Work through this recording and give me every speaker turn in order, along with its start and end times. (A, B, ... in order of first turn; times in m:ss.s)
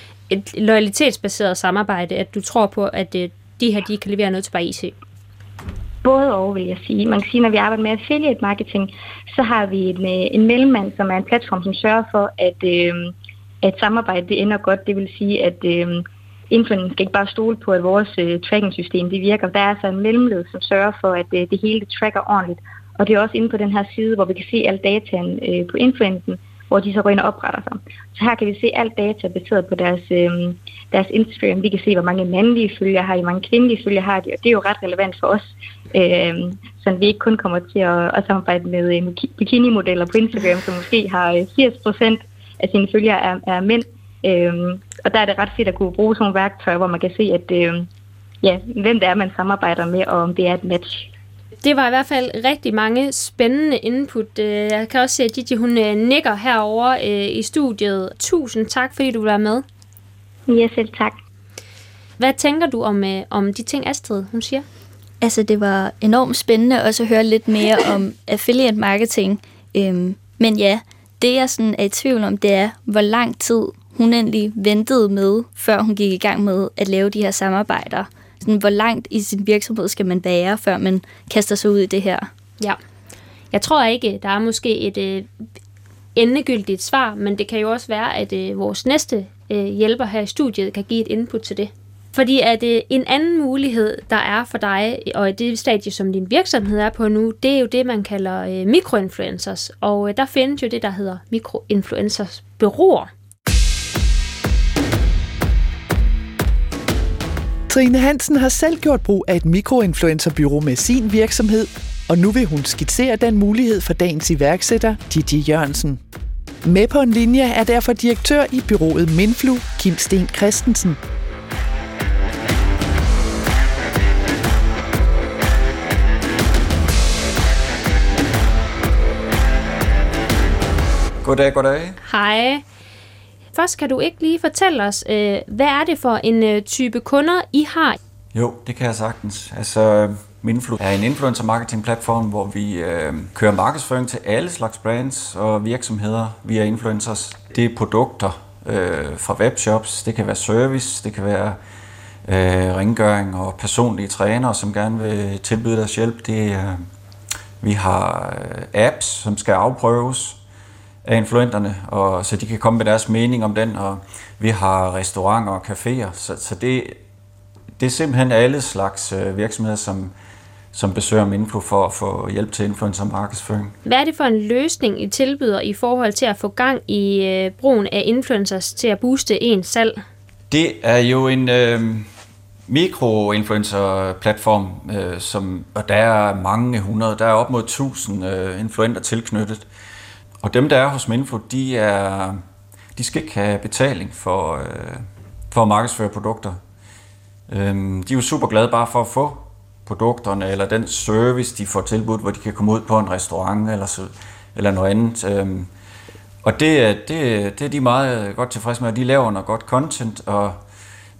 0:00.3-0:04.9 A
0:06.0-0:47.9 B
0:48.4-0:51.1 B
0:51.6-0:59.6 A
1:00.5-1:01.2 B
1:02.2-1:04.6 A
1:05.2-1:22.3 C
1:23.5-1:25.3 A
1:26.1-1:43.1 A
1:47.7-1:56.0 D
1:56.6-2:01.0 D
2:11.2-2:12.0 E
2:12.0-2:12.6 A
2:13.5-2:18.0 A
2:18.3-2:31.6 E
2:32.2-2:36.8 E
2:37.6-2:40.4 E
2:41.0-2:47.0 E
2:47.8-2:50.1 E
2:50.7-2:53.7 E
2:53.8-3:00.0 A
3:00.5-3:02.1 E
3:02.7-3:09.6 E
3:10.4-3:12.4 E
3:13.0-3:16.6 E
3:17.5-3:25.7 E
3:26.4-3:30.6 E